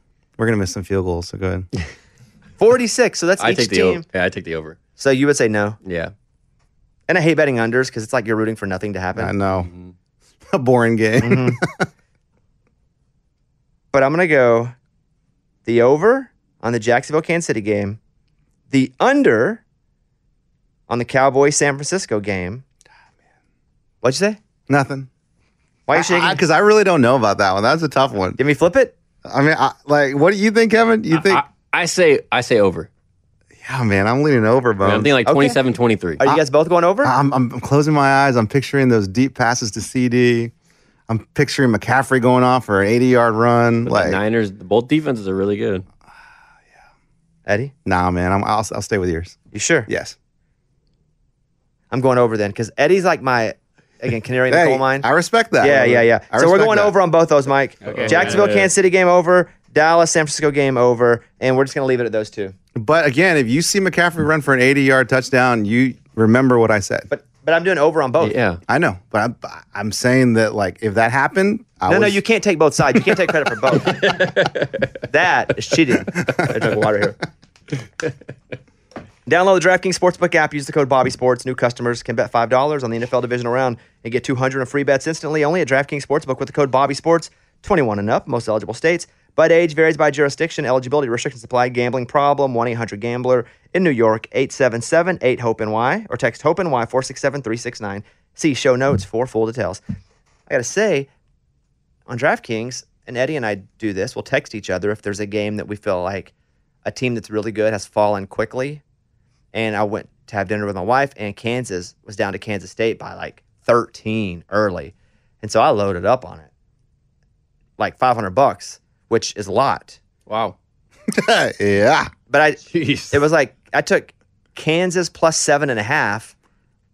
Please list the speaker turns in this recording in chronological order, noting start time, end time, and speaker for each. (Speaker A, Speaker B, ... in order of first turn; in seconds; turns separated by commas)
Speaker A: 0.4-1.7, Speaker B: 2.6-4.0, Speaker C: 3.4-4.8, Speaker B: 5.0-5.8, Speaker C: 5.8-6.1, Speaker B: 7.1-9.3, Speaker A: 9.2-9.7, Speaker A: 10.5-11.9, Speaker B: 11.2-11.6, Speaker B: 13.9-14.7, Speaker B: 15.6-18.0, Speaker B: 18.7-19.6, Speaker B: 20.9-22.6, Speaker B: 24.0-24.4, Speaker A: 24.7-25.1, Speaker B: 25.9-26.4, Speaker A: 25.9-28.4, Speaker B: 28.4-28.9, Speaker A: 29.2-31.4, Speaker C: 31.1-32.9, Speaker A: 33.6-35.1, Speaker C: 34.8-36.2, Speaker B: 35.2-35.6, Speaker B: 36.2-37.1, Speaker A: 37.0-40.5, Speaker A: 41.1-44.2, Speaker C: 43.9-45.8, Speaker B: 47.5-47.7, Speaker A: 47.8-50.1, Speaker B: 49.5-49.9, Speaker B: 51.9-55.1, Speaker A: 54.5-56.9, Speaker B: 55.6-62.5, Speaker C: 57.9-58.7, Speaker A: 62.8-67.1, Speaker B: 67.1-68.3, Speaker C: 68.2-68.6, Speaker A: 68.7-72.2, Speaker B: 71.9-74.2, Speaker C: 73.8-74.8, Speaker B: 75.1-77.2, Speaker B: 79.2-99.8, Speaker B: 100.5-101.1, Speaker B: 102.1-106.3, Speaker B: 106.8-108.8, Speaker B: 109.5-116.5, Speaker B: 117.8-120.0, Speaker C: 120.3-120.5, Speaker A: 121.1-122.1, Speaker B: 122.3-126.3, Speaker C: 122.7-123.2